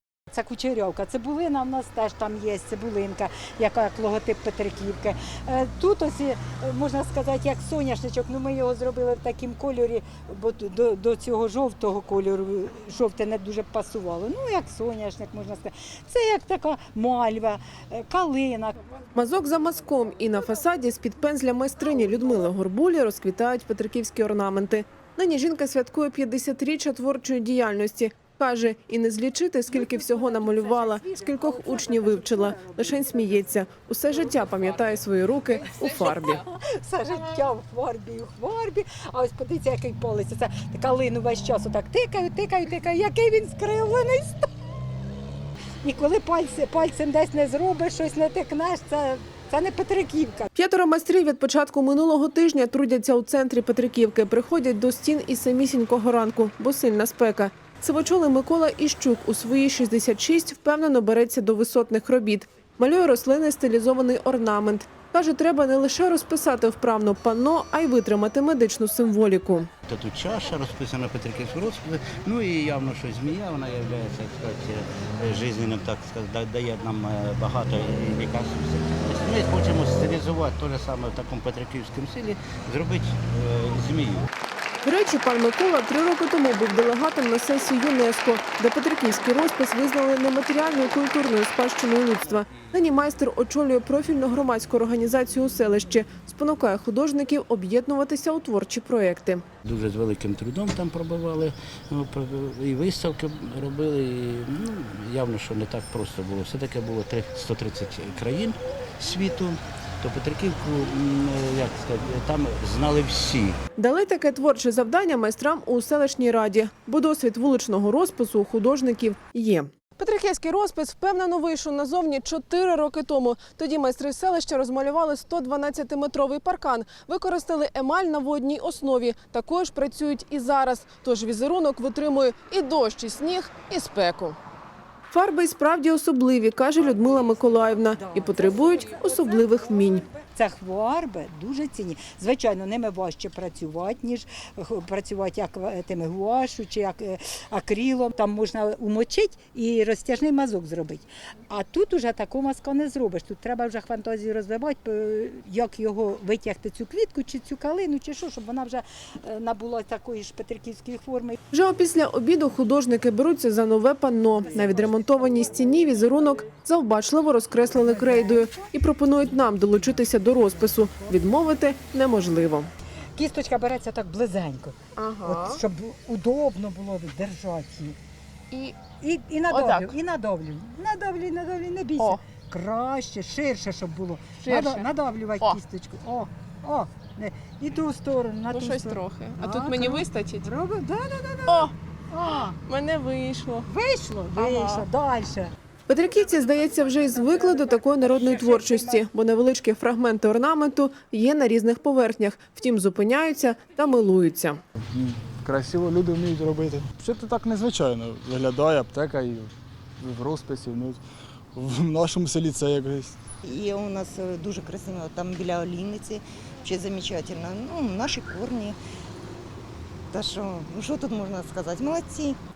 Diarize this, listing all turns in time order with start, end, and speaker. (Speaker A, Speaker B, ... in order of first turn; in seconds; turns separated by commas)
Speaker A: 0.3-18.8, Speaker B: 19.1-36.4, Speaker A: 29.7-33.5, Speaker A: 35.9-44.5, Speaker A: 45.8-50.5, Speaker B: 50.5-69.7, Speaker C: 69.9-84.3, Speaker B: 84.8-99.4, Speaker C: 99.6-113.6, Speaker B: 113.8-134.4, Speaker B: 135.1-140.1, Speaker A: 137.1-137.3, Speaker A: 137.9-161.4, Speaker B: 161.5-172.7, Speaker A: 167.7-171.2, Speaker A: 173.2-178.0, Speaker B: 175.0-175.6, Speaker B: 178.5-178.8, Speaker A: 178.8-192.6, Speaker B: 179.5-179.9, Speaker B: 184.4-184.9, Speaker B: 188.5-190.5, Speaker B: 192.6-193.7, Speaker A: 193.6-195.5, Speaker B: 194.3-194.8, Speaker B: 195.9-204.6, Speaker A: 197.1-199.1, Speaker D: 204.9-211.0, Speaker D: 211.5-213.2, Speaker E: 213.4-218.8, Speaker E: 220.1-222.4